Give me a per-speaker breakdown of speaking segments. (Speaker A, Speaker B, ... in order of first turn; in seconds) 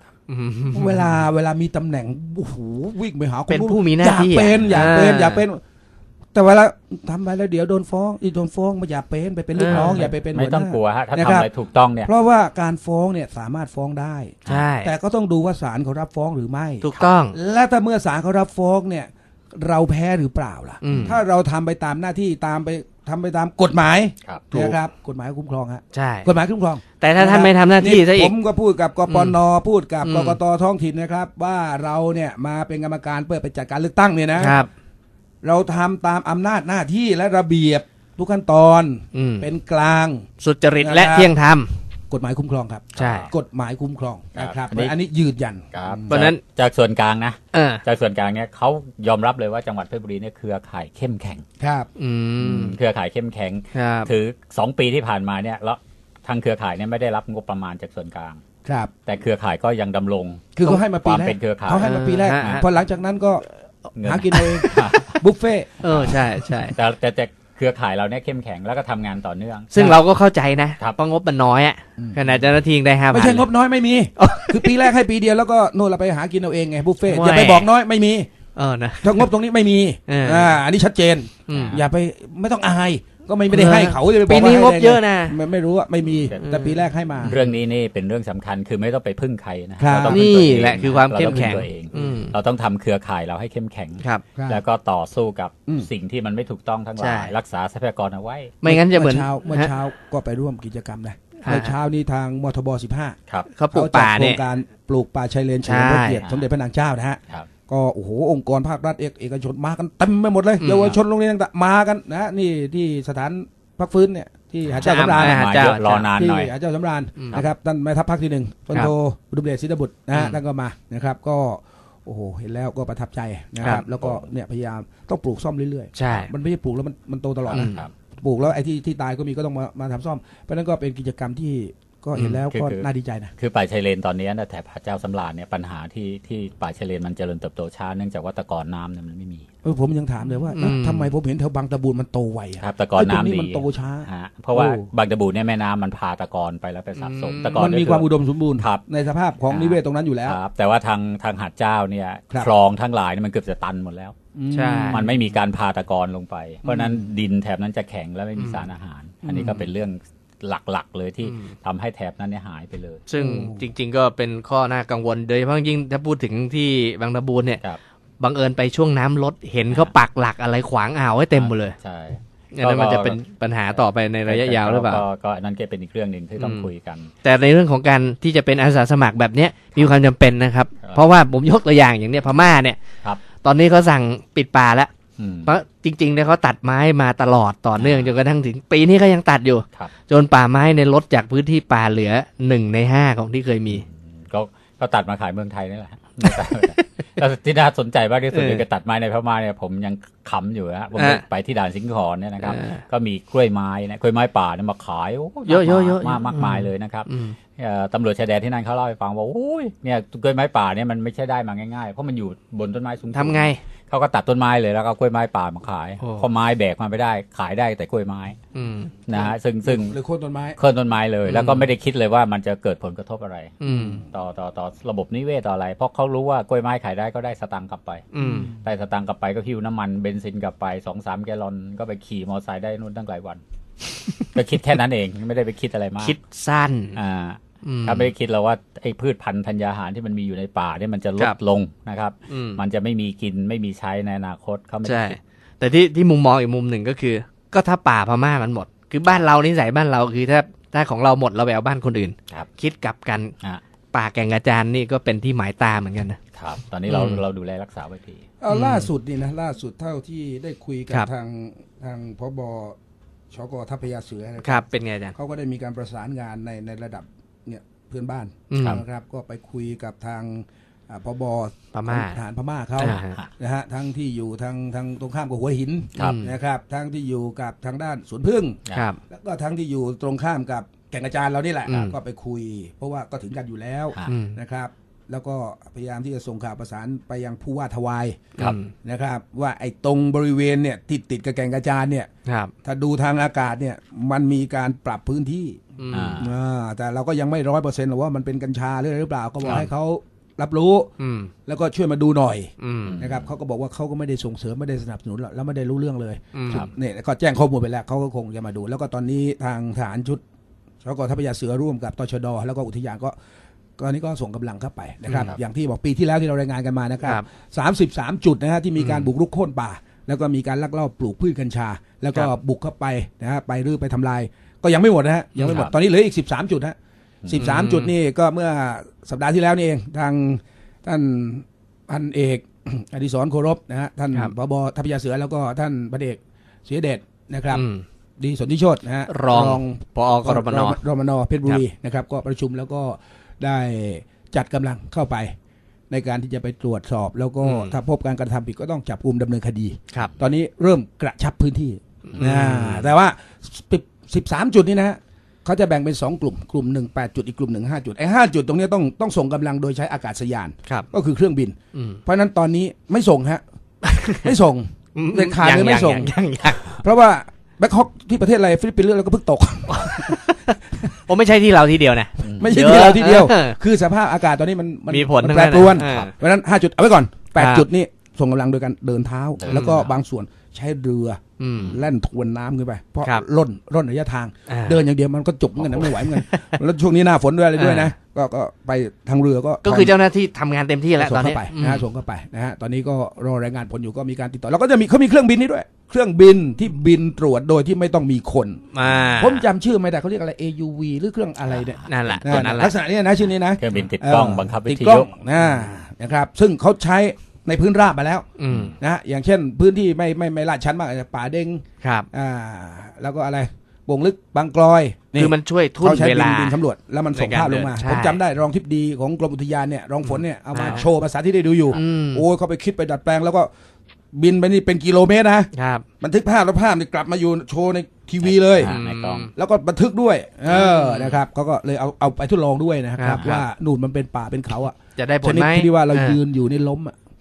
Speaker A: 0.3-1.1, 3.5-5.4, 9.6-10.1, 14.5-14.9, 16.8-17.4, 20.8-21.2, 24.5-24.8, 25.9-26.3, 27.0-28.3, 29.1-29.4, 30.0-30.4, 34.4-34.7, 39.1-39.5, 40.4-41.8, 43.0-43.3, 46.1-46.4, 47.5-47.8, 52.0-52.8, 53.7-54.1, 61.8-62.6, 64.3-65.2, 65.8-66.8, 69.7-73.5, 74.2-74.9, 77.1-77.7, 78.5-79.3, 80.1-80.6, 81.5-81.8, 83.5-85.4, 86.3-86.8, 90.0-92.3, 97.0-97.3, 98.6-99.8, 101.4-101.8, 103.5-104.4, 105.6-106.2, 110.6-111.0, 114.8-116.1, 120.1-120.4, 126.0-126.3, 127.5-127.8, 140.6-141.1, 147.0-147.7, 154.5-155.1, 158.4-158.6, 161.2-161.5, 163.1-167.6, 168.2-171.8, 172.5-175.1, 176.4-176.7, 177.2-184.9, 185.5-193.8, 196.3-196.8, 198.3-198.7, 201.0-201.2, 202.4-202.8, 205.5-207.4, 213.1-213.6, 216.0-216.3, 218.6-218.9, 221.2-221.7, 223.6-224.0, 228.1-228.5, 236.0-237.0, 237.7-238.1, 242.3-242.6, 244.8-253.3, 253.9-256.2, 256.9-257.2, 258.5-258.9, 264.4-265.1, 268.5-268.8, 271.7-272.2, 272.8-273.2, 276.0-276.3, 278.7-279.0, 281.7-282.0, 284.1-284.4, 288.4-288.7, 292.3-292.5, 295.8-296.2, 301.0-301.3, 302.6-303.0, 306.3-306.6, 315.1-315.3, 318.8-319.1, 325.4-325.7, 327.4-327.9, 337.5-337.9, 339.1-340.8, 347.4-347.8, 352.1-352.9, 361.7-362.0, 363.9-364.3, 365.0-366.8, 369.7-373.6, 374.9-376.1, 377.4-377.7, 379.5-379.9, 381.4-381.8, 384.5-384.8, 385.8-386.5, 387.6-387.9, 389.6-391.9, 398.7-399.4, 401.9-402.7, 408.4-408.7, 411.8-412.1, 415.2-416.6, 417.1-418.2, 420.0-420.9, 421.7-422.3, 425.5-425.9, 428.6-429.3, 430.5-431.2, 433.0-433.4, 435.0-436.2
Speaker B: 0.7-5.6, 6.3-11.5, 12.1-34.6, 35.4-40.3, 40.8-41.3, 42.1-46.2, 51.6-51.9, 58.6-58.9, 60.5-63.5, 64.0-66.2, 72.0-72.2, 73.1-78.3, 79.0-87.4, 89.8-90.3, 91.2-92.1, 94.4-94.6, 98.7-103.2, 103.7-133.3, 139.6-144.9, 147.5-150.4, 154.3-155.3, 156.6-157.1, 159.2-159.7, 163.2-163.7, 219.1-220.6, 223.7-224.1, 228.2-228.6, 258.4-262.8, 263.3-292.1, 292.6-295.6, 296.2-300.9, 301.5-310.2, 310.8-313.1, 313.8-337.6, 338.2-345.3, 345.9-363.4, 364.1-366.1, 366.7-370.2, 372.4-390.0, 391.0-423.5, 424.1-428.8, 429.4-436.9
Speaker C: 9.7-12.1, 20.9-21.2, 43.0-43.3, 44.4-44.9, 45.7-51.5, 52.4-58.4, 59.1-62.7, 64.0-65.2, 65.9-70.0, 81.5-81.8, 87.2-98.5, 114.7-116.5, 127.5-127.9, 132.2-139.5, 142.6-148.8, 149.5-154.2, 154.9-163.0, 171.3-173.2, 173.7-177.1, 185.2-185.5, 187.8-188.1, 193.7-218.4, 219.1-220.0, 220.6-223.6, 224.1-228.1, 228.6-233.4, 234.3-236.2, 236.9-245.2, 256.3-258.2, 272.8-273.3, 276.0-276.2, 295.9-296.3, 302.8-303.3, 325.4-325.7, 372.2-372.6, 375.8-376.1, 379.4-379.9, 401.5-402.7, 403.6-405.7, 408.5-408.8, 428.2-429.3